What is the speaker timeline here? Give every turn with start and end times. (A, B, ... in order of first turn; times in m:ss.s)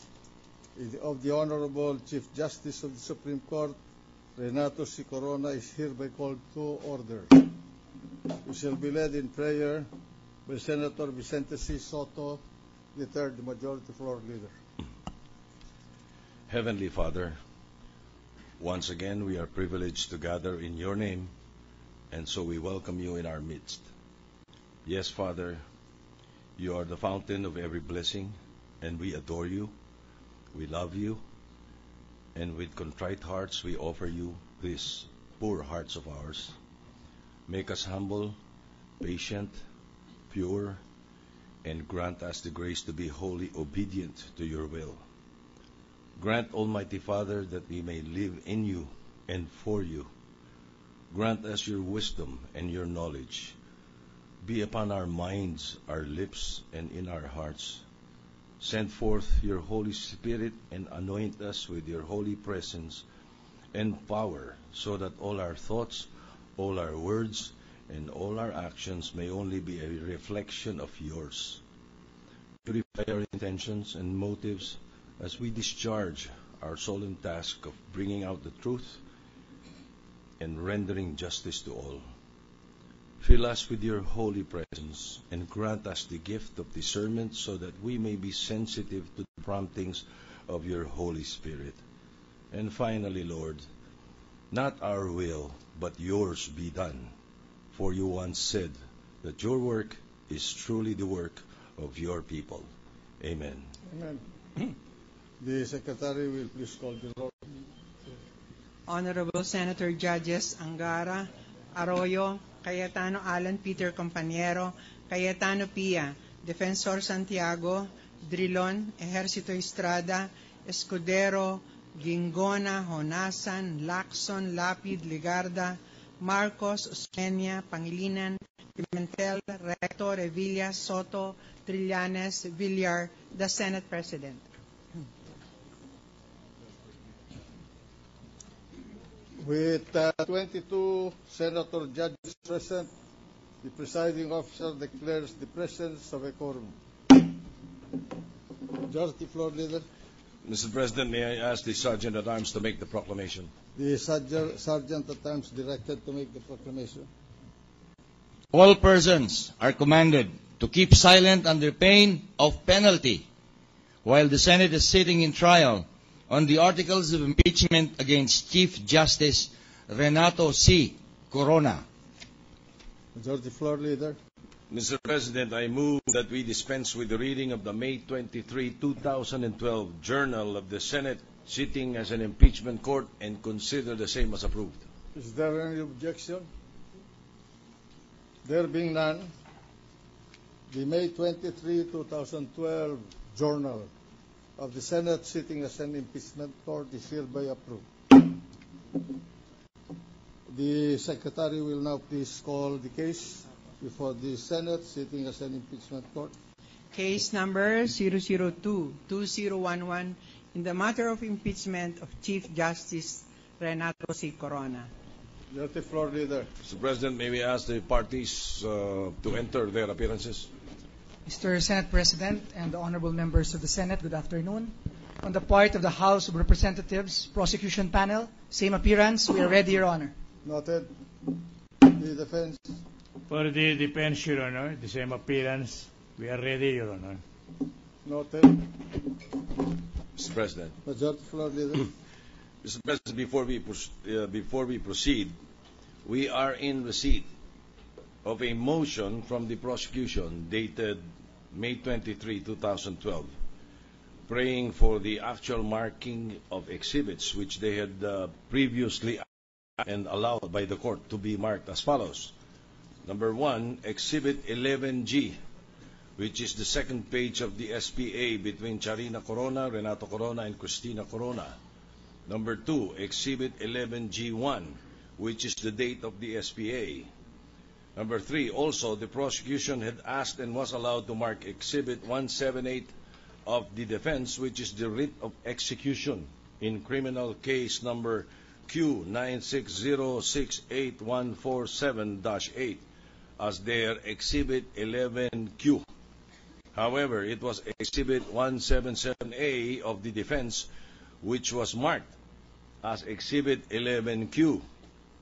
0:00.8-0:03.8 A
0:04.4-0:07.5 A
0:08.4-0:09.9 A
0:10.4-0:12.4 A
0:12.9-0:14.5 A
0:16.5-0:17.4 B
0:18.6-0:21.3 B
0:22.1-0:23.9 B
0:24.8-0:25.6 B
0:26.6-0:29.8 B
0:30.5-0:31.2 B
0:32.3-0:36.6 B
0:37.5-0:38.4 B
0:39.0-0:39.6 B
0:40.3-0:40.8 B
0:41.6-0:45.0 B
0:46.2-0:50.1 B
0:51.1-0:53.6 B
0:54.4-0:57.8 B
0:58.6-1:03.0 B
1:03.7-1:11.6 B
1:12.6-1:19.0 B
1:20.4-1:22.0 B
1:23.2-1:31.8 B
1:32.5-1:33.6 B
1:34.5-1:37.1 B
1:37.7-1:42.7 B
1:43.2-1:43.7 B
1:43.9-1:44.7 A
1:45.4-1:47.4 A
1:48.9-2:14.5 C
2:19.4-2:22.9 A
2:23.6-2:27.2 A
2:28.7-2:29.8 A
2:30.4-2:33.5 B
2:33.8-2:37.1 A
2:38.5-2:43.2 D
2:44.0-2:51.8 D
2:53.1-2:54.2 A
2:54.7-3:04.9 B
3:05.1-3:06.5 A
3:08.4-3:09.3 A
3:10.7-3:13.9 A
3:14.6-3:18.3 A
3:20.5-3:26.3 A
3:26.9-3:34.9 C
3:35.5-3:36.5 A
3:36.6-3:40.5 B
3:41.2-3:50.1 E
3:50.4-3:51.3 A
3:51.8-3:52.8 A
3:53.3-3:57.2 F
3:58.0-3:59.0 A
4:00.2-4:00.7 B
4:00.8-4:01.9 A
4:02.6-4:05.4 B
4:06.0-4:07.3 B
4:08.2-4:13.3 B
4:14.3-4:19.2 B
4:19.8-4:22.3 B
4:23.0-4:25.4 B
4:26.2-4:31.6 B
4:32.3-4:37.1 B
4:38.0-4:42.9 B
4:43.5-4:52.9 B
4:53.4-4:55.8 B
4:56.7-5:00.7 B
5:01.2-5:02.2 B
5:02.8-5:04.6 B